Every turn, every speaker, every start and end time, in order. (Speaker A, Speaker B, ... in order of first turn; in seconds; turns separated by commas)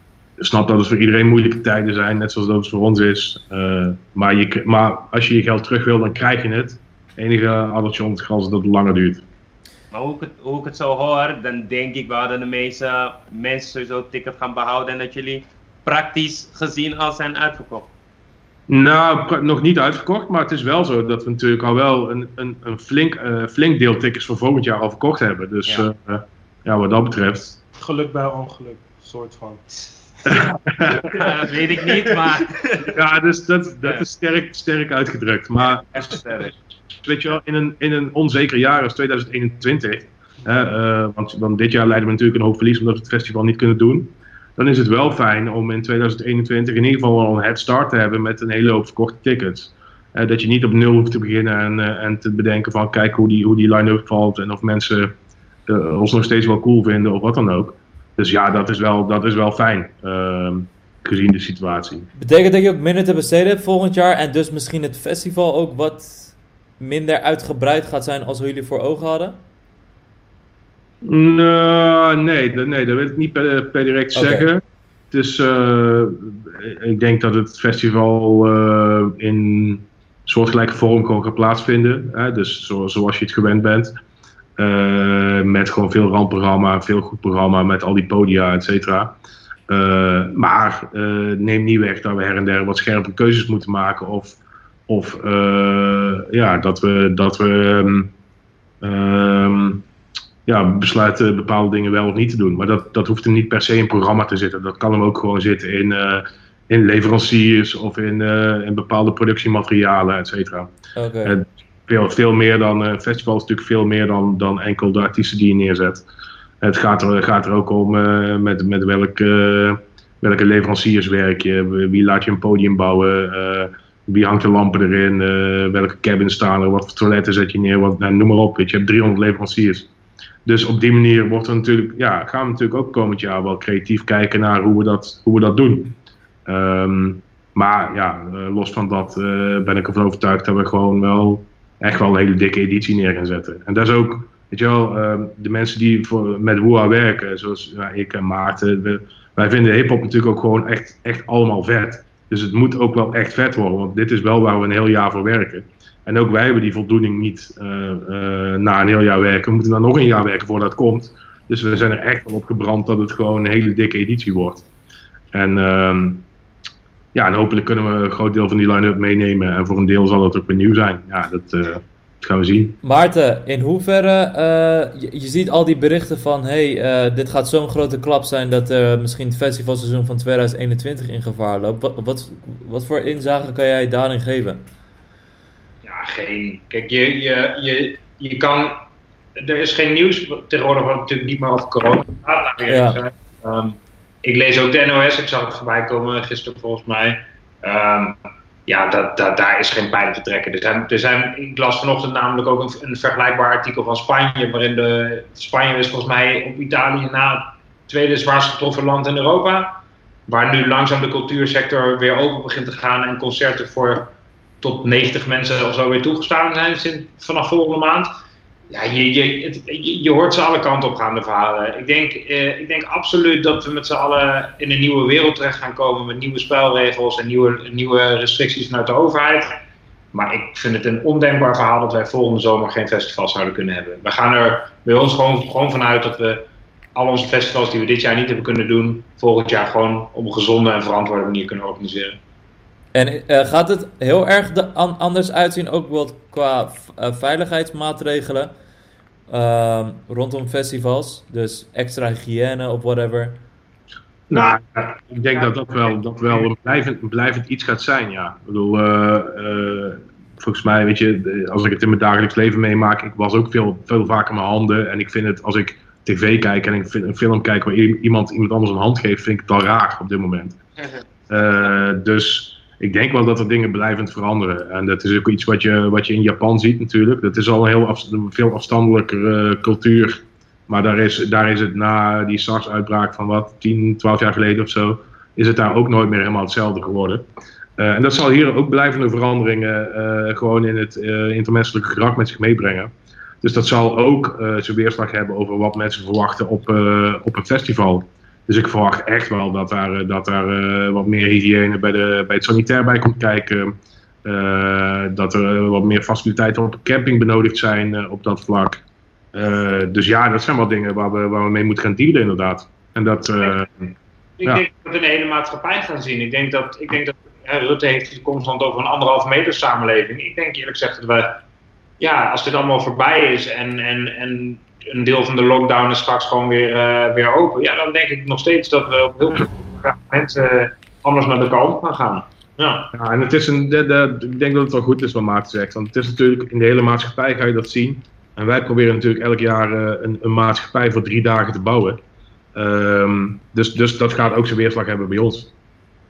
Speaker A: 0.4-9.2, Speaker B: 9.9-17.9, Speaker A: 18.7-27.6, Speaker C: 27.8-29.6, Speaker A: 30.2-31.2, Speaker B: 30.9-32.8, Speaker C: 31.0-32.9, Speaker A: 32.8-36.5, Speaker B: 35.9-36.5, Speaker A: 37.0-55.1, Speaker A: 55.7-62.1, Speaker D: 62.1-69.4, Speaker A: 71.0-83.9, Speaker D: 74.1-74.5, Speaker A: 84.6-89.1, Speaker A: 89.7-98.1, Speaker A: 98.8-99.8, Speaker A: 100.5-110.7, Speaker D: 110.9-111.4, Speaker A: 111.2-116.0, Speaker A: 116.6-129.9, Speaker A: 130.4-164.7, Speaker A: 165.3-166.3, Speaker A: 167.1-172.8, Speaker D: 172.8-184.6, Speaker E: 185.8-188.8, Speaker E: 189.4-218.1, Speaker D: 192.7-193.0, Speaker E: 218.7-229.6, Speaker E: 230.1-242.2, Speaker D: 242.9-248.5, Speaker D: 249.3-253.4, Speaker A: 254.3-270.6, Speaker E: 254.3-254.6, Speaker B: 270.8-271.1, Speaker A: 271.3-287.2, Speaker A: 287.8-292.9, Speaker A: 293.4-308.8, Speaker A: 309.3-314.6, Speaker E: 314.4-321.4, Speaker E: 322.0-332.9, Speaker A: 332.9-342.0, Speaker A: 342.5-345.5